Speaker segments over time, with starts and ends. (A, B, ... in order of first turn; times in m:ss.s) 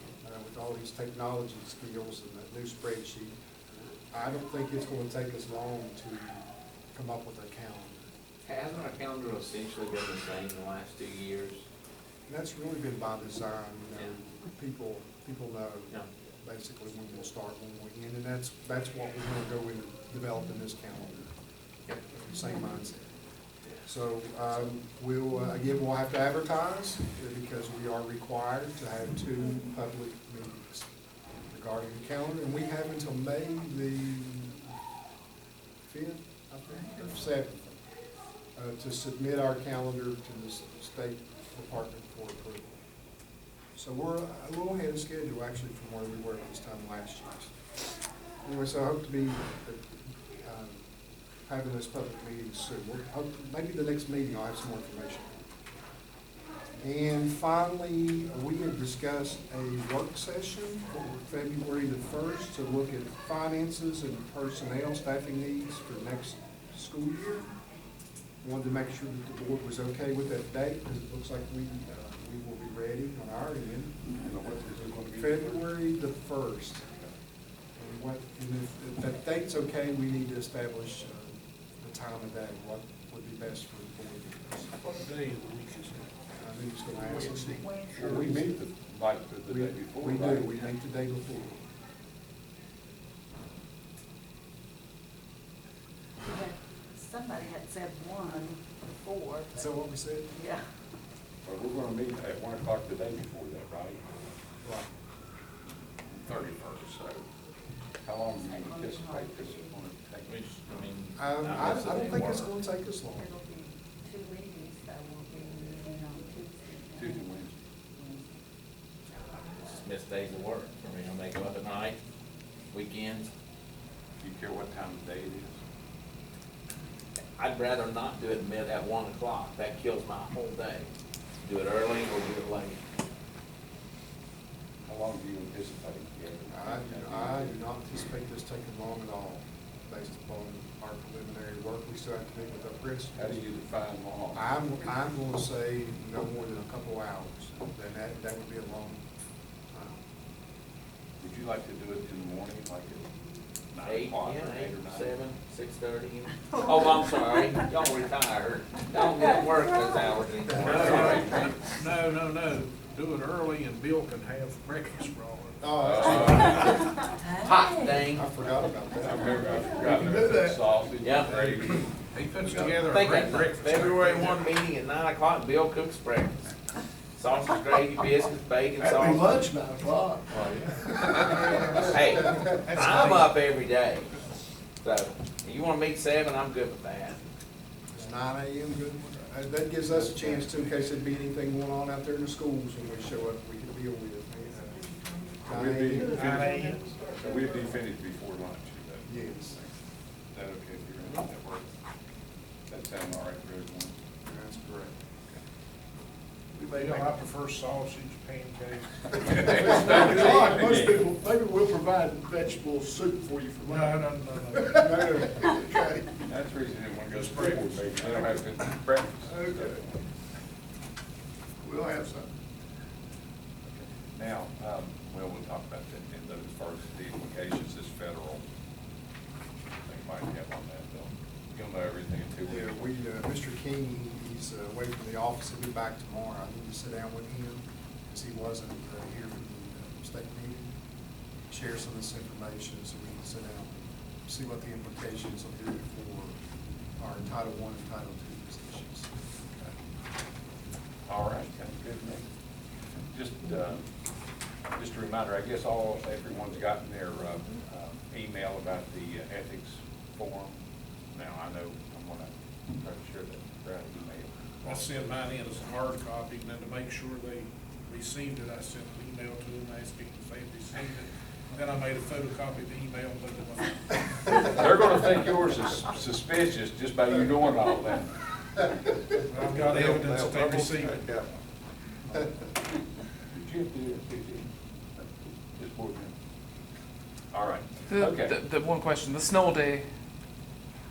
0:00.2-0:03.4 A
0:04.1-0:08.1 A
0:08.4-0:11.6 B
0:12.3-0:21.3 A
0:22.1-0:23.1 A
0:23.8-0:30.9 A
0:31.5-0:34.8 A
0:35.8-0:37.8 A
0:38.6-0:42.8 A
0:43.8-0:47.5 A
0:48.4-0:49.8 A
0:50.4-0:50.8 A
0:51.5-0:55.4 A
0:56.8-1:07.5 A
1:08.4-1:14.0 A
1:14.1-1:15.7 C
1:15.2-1:16.8 A
1:17.8-1:24.7 A
1:24.8-1:26.1 D
1:26.4-1:28.6 A
1:27.0-1:28.2 D
1:27.6-1:28.0 E
1:28.0-1:30.7 C
1:29.5-1:31.6 A
1:36.2-1:39.6 E
1:39.5-1:40.4 A
1:40.4-1:40.6 E
1:41.4-1:44.0 C
1:46.1-1:47.2 C
1:48.0-1:50.5 C
1:48.4-1:49.7 E
1:50.3-1:52.5 B
1:51.2-1:53.3 A
1:53.1-1:57.2 E
1:57.0-1:57.6 C
1:58.0-1:58.2 E
1:59.4-2:02.0 B
2:02.7-2:03.3 B
2:04.2-2:05.6 C
2:07.4-2:10.9 B
2:11.4-2:12.8 B
2:14.9-2:17.6 C
2:16.5-2:23.4 A
2:23.2-2:24.4 C
2:24.3-2:29.0 A
2:29.7-2:30.0 A
2:31.2-2:33.1 C
2:33.7-2:35.1 C
2:33.8-2:41.7 B
2:40.5-2:41.2 F
2:40.6-2:41.5 C
2:40.8-2:46.2 D
2:45.6-2:46.9 A
2:45.8-2:46.9 C
2:47.2-2:48.0 E
2:47.3-2:48.3 B
2:48.0-2:49.7 A
2:49.0-2:51.9 C
2:49.6-2:50.7 F
2:51.0-2:51.4 B
2:52.1-2:54.5 D
2:52.8-2:56.5 B
2:57.2-2:59.3 B
2:58.8-3:02.5 F
3:01.1-3:03.1 A
3:01.9-3:04.1 B
3:02.5-3:03.3 D
3:04.8-3:07.2 B
3:07.9-3:16.6 A
3:15.5-3:16.6 C
3:16.1-3:16.8 D
3:16.2-3:17.4 F
3:17.2-3:19.7 C
3:19.1-3:19.6 A
3:20.3-3:21.7 C
3:22.7-3:24.0 C
3:24.2-3:25.0 A
3:26.5-3:27.2 F
3:26.7-3:31.2 D
3:29.2-3:31.1 C
3:29.8-3:36.1 F
3:33.6-3:35.6 D
3:34.8-3:35.6 A
3:36.2-3:39.8 C
3:37.1-3:38.2 D
3:39.3-3:39.8 F
3:41.6-3:42.3 F
3:43.6-3:48.4 C
3:49.8-3:53.0 C
3:52.4-4:00.7 A
4:01.5-4:06.4 A
4:07.0-4:09.1 A
4:11.1-4:12.2 C
4:13.1-4:13.9 C
4:14.7-4:20.6 C
4:21.1-4:25.1 C
4:24.7-4:34.5 D
4:34.3-4:38.1 C
4:39.2-4:41.1 D
4:39.4-4:41.3 F
4:43.3-4:44.5 C
4:45.6-4:46.1 C
4:47.3-4:48.4 C
4:47.9-4:49.9 G